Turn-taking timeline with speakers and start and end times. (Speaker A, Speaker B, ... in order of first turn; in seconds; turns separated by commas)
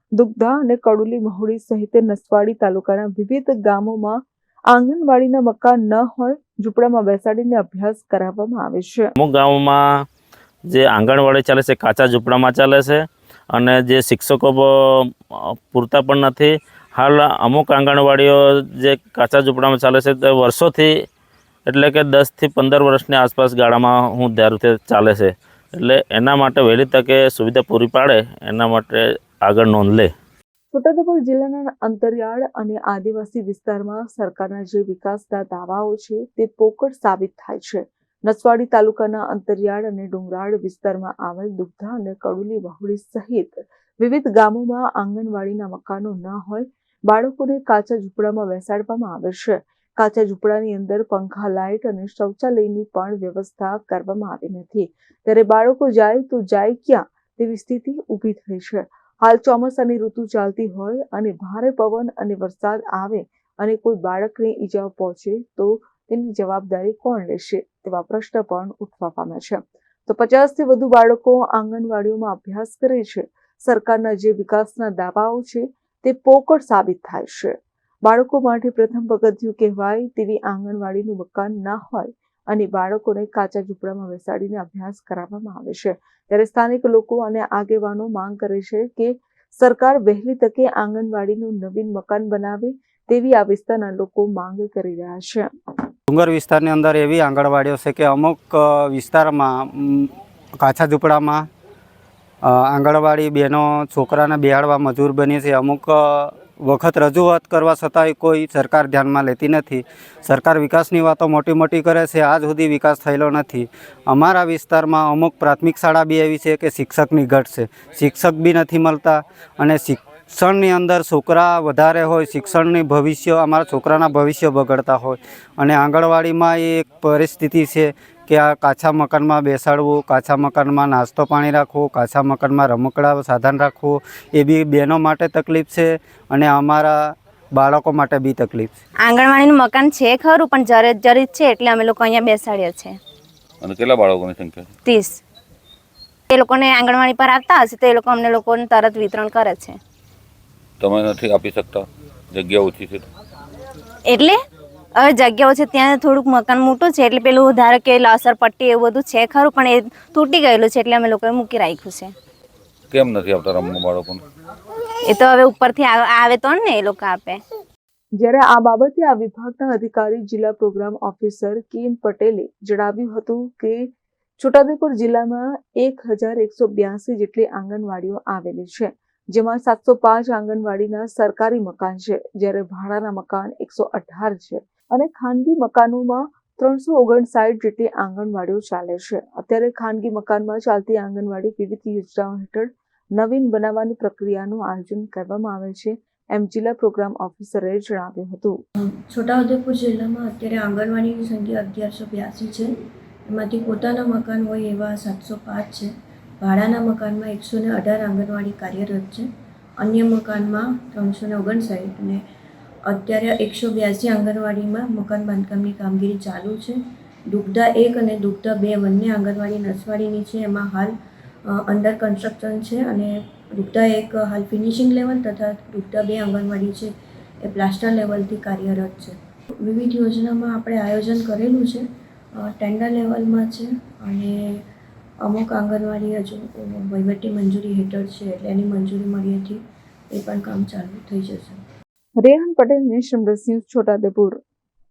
Speaker A: 0.1-9.1, Speaker B: 9.2-9.8, Speaker B: 10.7-20.9, Speaker B: 21.7-30.1, Speaker A: 30.7-95.5, Speaker C: 96.1-101.5, Speaker C: 102.4-138.7, Speaker D: 139.0-143.0, Speaker E: 143.6-144.6, Speaker D: 144.8-145.2, Speaker D: 146.3-149.8, Speaker E: 150.8-153.0, Speaker D: 154.1-154.4, Speaker D: 154.9-162.1, Speaker E: 162.9-164.2, Speaker D: 165.1-167.4, Speaker A: 168.2-198.6, Speaker F: 198.8-202.8, Speaker F: 203.3-209.3, Speaker F: 209.8-212.2, Speaker F: 212.8-220.9, Speaker F: 221.5-234.6, Speaker F: 235.2-241.6, Speaker A: 242.2-244.4